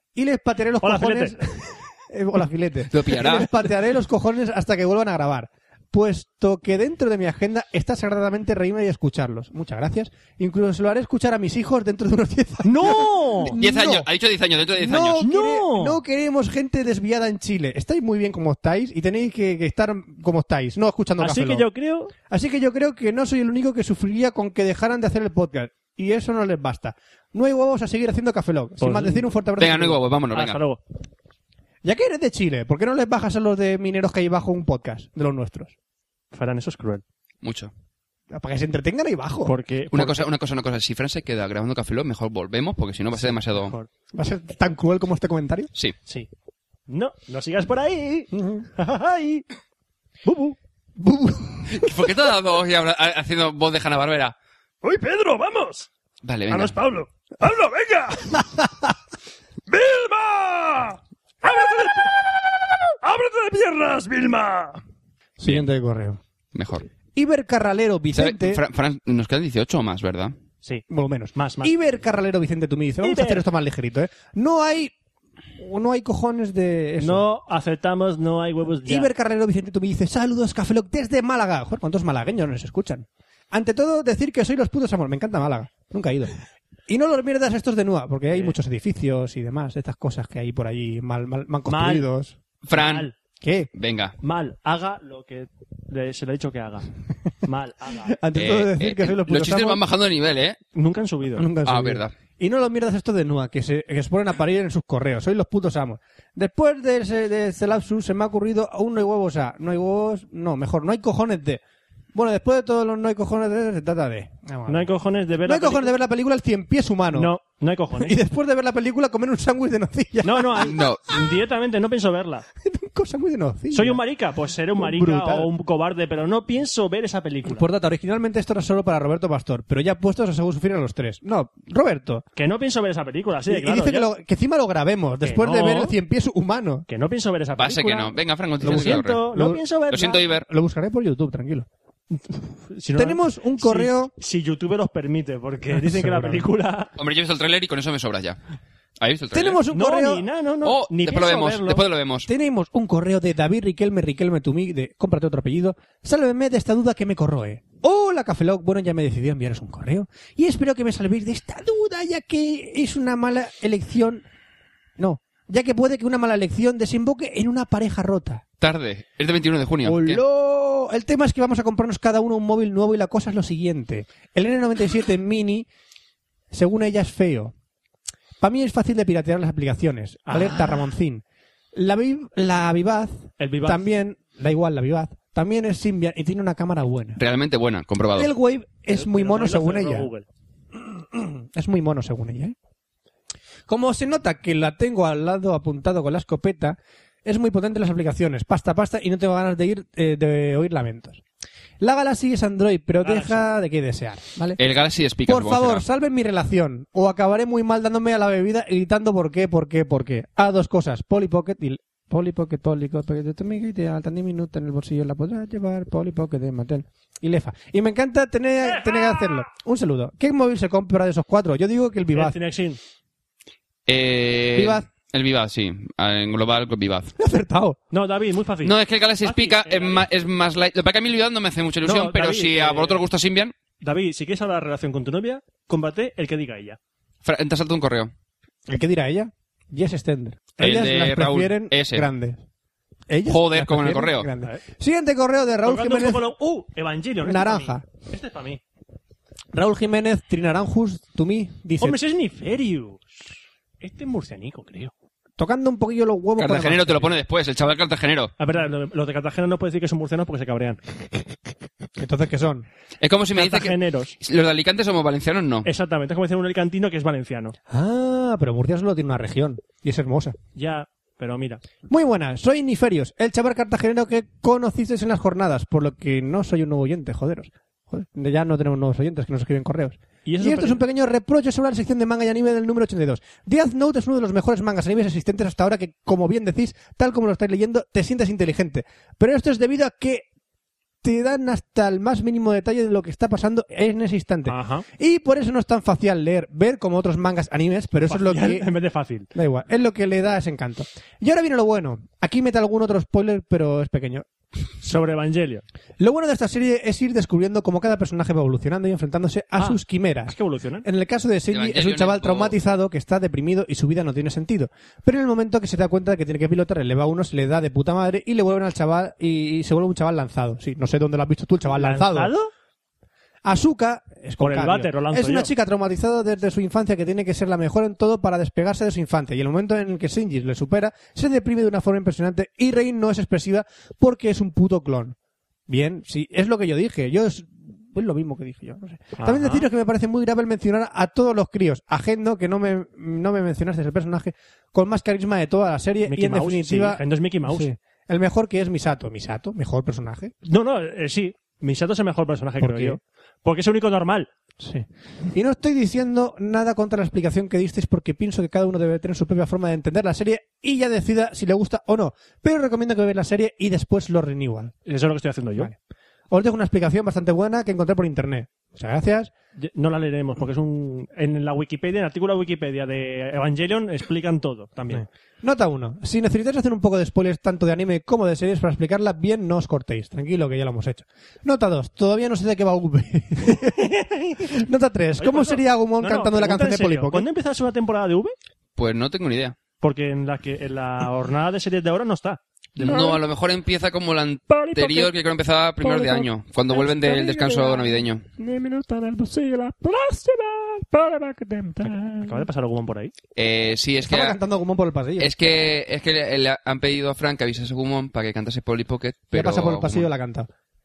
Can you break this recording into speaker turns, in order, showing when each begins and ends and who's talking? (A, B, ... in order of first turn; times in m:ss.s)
0:00.2-0:14.1 A
0:00.8-0:01.4 B
0:02.9-0:03.5 C
0:12.6-0:13.6 B
0:13.6-0:15.2 C
0:14.8-0:21.7 A
0:15.2-0:16.0 B
0:21.2-0:22.1 B
0:22.3-0:30.0 A
0:28.8-0:29.3 B
0:29.6-0:30.6 C
0:30.3-0:30.8 B
0:31.8-0:35.8 A
0:36.3-0:37.0 B
0:37.4-0:37.7 C
0:38.3-0:39.5 A
0:39.4-0:40.3 B
0:39.9-0:43.8 C
0:43.2-0:43.9 B
0:44.1-0:45.7 A
0:46.9-0:49.4 B
0:48.3-0:48.7 A
0:50.2-0:50.6 B
0:51.0-0:52.0 A
0:51.7-0:54.4 C
0:54.8-0:55.9 B
0:56.2-0:56.8 C
0:56.5-0:58.5 B
0:59.7-1:04.8 B
1:05.4-1:06.2 A
1:06.5-1:06.9 C
1:07.2-1:08.6 A
1:08.1-1:10.4 C
1:10.9-1:14.9 A
1:11.4-1:11.7 B
1:13.0-1:13.4 B
1:15.6-1:17.2 A
1:17.0-1:19.1 B
1:18.8-1:26.3 A
1:26.9-1:32.4 A
1:28.3-1:28.6 B
1:31.7-1:32.1 B
1:32.7-1:33.1 C
1:32.7-1:33.1 B
1:33.4-1:33.7 A
1:33.7-1:34.2 C
1:34.2-1:36.9 B
1:37.4-1:38.2 B
1:38.0-1:39.8 A
1:38.4-1:40.6 C
1:40.8-1:41.5 B
1:41.4-1:51.6 A
1:41.6-1:42.1 C
1:52.1-1:54.9 A
1:54.7-1:55.9 B
1:55.4-1:57.4 A
1:57.1-1:58.2 B
1:57.9-2:00.8 A
2:00.2-2:02.5 B
2:00.7-2:01.0 C
2:02.6-2:04.0 A
2:03.7-2:07.6 B
2:04.8-2:05.5 A
2:07.4-2:12.2 A
2:12.4-2:14.1 B
2:13.5-2:16.8 A
2:15.2-2:16.0 B
2:16.9-2:20.2 B
2:17.6-2:19.3 C
2:18.6-2:19.6 A
2:19.9-2:20.4 C
2:20.4-2:21.7 A
2:22.1-2:26.9 B
2:23.0-2:24.1 A
2:25.7-2:26.5 A
2:27.0-2:28.4 C
2:29.0-2:29.6 C
2:29.3-2:30.2 A
2:29.7-2:31.8 B
2:30.6-2:32.3 C
2:32.3-2:44.2 A
2:45.0-2:48.4 A
2:48.6-2:50.2 C
2:49.8-2:55.7 A
2:56.5-2:57.5 A
2:58.4-3:01.2 A
3:00.3-3:00.6 B
3:01.7-3:07.2 A
3:03.4-3:03.8 B
3:07.2-3:08.3 C
3:08.1-3:10.1 A
3:08.9-3:10.3 B
3:10.8-3:12.6 A
3:13.7-3:21.2 A
3:21.8-3:24.6 A
3:23.0-3:23.5 B
3:24.6-3:25.8 C
3:25.2-3:42.4 A
3:38.7-3:39.5 B
3:42.1-3:42.8 B
3:43.9-3:47.1 C
3:44.6-3:44.9 A
3:47.2-3:47.8 A
3:47.9-3:50.0 B
3:48.6-3:53.6 C
3:51.8-3:53.0 B
3:53.8-3:56.8 B
3:57.2-3:58.1 C
3:58.7-4:02.4 A
4:00.6-4:02.1 C
4:03.1-4:06.3 A
4:03.3-4:04.3 C
4:05.6-4:08.6 B
4:07.2-4:07.9 A
4:09.5-4:12.0 A
4:11.8-4:13.3 B
4:13.8-4:14.9 B
4:15.4-4:17.1 A
4:16.4-4:18.3 C
4:18.4-4:20.8 B
4:22.0-4:22.7 A
4:23.0-4:25.7 C
4:23.4-4:24.2 B
4:25.6-4:27.6 B
4:27.7-4:30.4 A
4:30.6-4:31.6 B
4:31.9-4:50.3 A
4:40.2-4:40.8 B
4:51.0-4:58.7 A
4:54.5-4:54.9 B
4:58.1-4:59.3 B
4:59.3-5:04.3 A
5:04.8-5:05.6 B
5:06.0-5:22.3 A
5:09.6-5:10.9 B
5:11.5-5:12.6 C
5:21.7-5:22.5 B
5:23.4-5:35.2 A
5:24.4-5:25.5 B
5:35.7-5:50.3 A
5:39.2-5:39.7 B
5:46.0-5:47.7 B
5:50.4-5:54.3 B
5:52.6-5:53.0 A
5:54.6-6:04.8 A
6:04.9-6:05.7 B
6:06.3-6:09.3 A
6:09.6-6:15.1 B
6:14.9-6:27.3 A
6:23.7-6:24.4 B
6:25.2-6:28.4 B
6:28.8-6:29.6 C
6:29.8-6:33.1 B
6:32.8-6:38.2 C
6:32.8-6:33.2 A
6:34.6-6:35.1 A
6:35.8-6:42.5 A
6:41.8-6:43.1 B
6:43.4-6:44.4 C
6:44.0-6:45.3 A
6:45.2-6:50.1 C
6:49.3-6:50.5 A